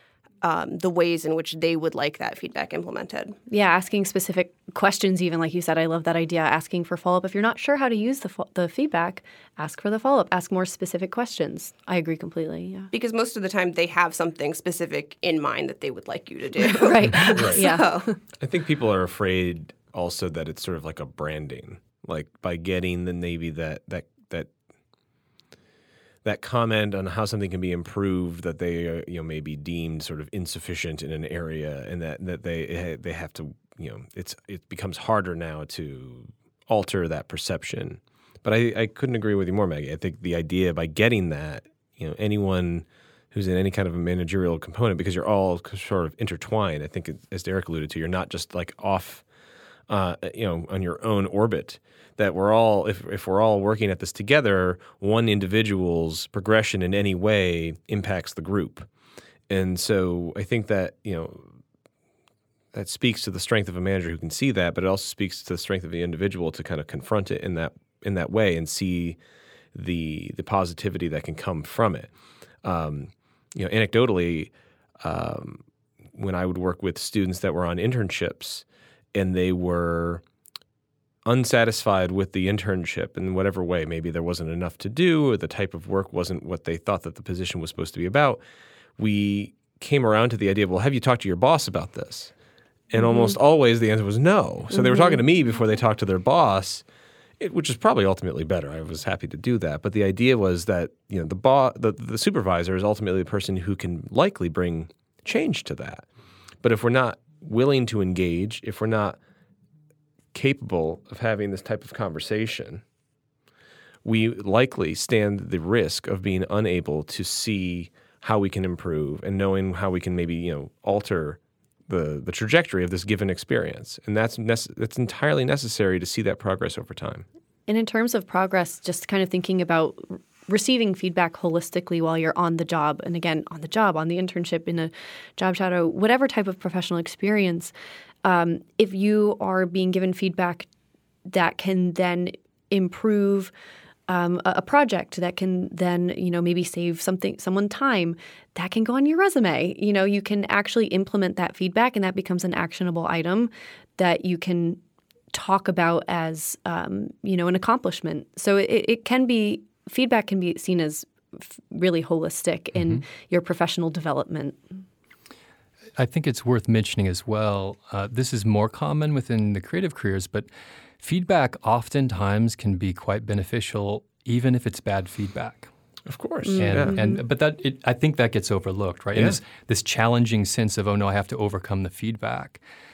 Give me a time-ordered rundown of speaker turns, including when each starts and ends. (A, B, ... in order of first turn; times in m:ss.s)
0:00.4-0:03.4 A
0:03.5-0:12.9 B
0:12.9-0:18.1 A
0:16.6-0:18.0 B
0:17.3-0:17.6 C
0:18.4-0:24.5 C
0:26.2-0:49.2 C
0:49.9-0:58.9 C
0:59.5-1:01.5 C
1:02.7-1:09.2 C
1:09.7-1:12.1 C
1:12.6-1:15.6 C
1:16.1-1:20.2 C
1:21.2-1:28.4 C
1:29.0-1:32.3 C
1:32.9-1:36.8 C
1:37.4-1:46.0 C
1:46.6-1:49.2 C
1:50.3-1:52.8 C
1:54.0-2:07.2 C
2:07.7-2:17.7 B
2:18.2-2:20.7 B
2:21.3-2:23.5 B
2:24.1-2:34.8 B
2:35.3-2:44.6 B
2:46.0-2:50.5 D
2:51.0-2:55.7 D
2:56.1-2:57.0 C
2:56.4-2:57.2 B
2:56.6-3:02.6 D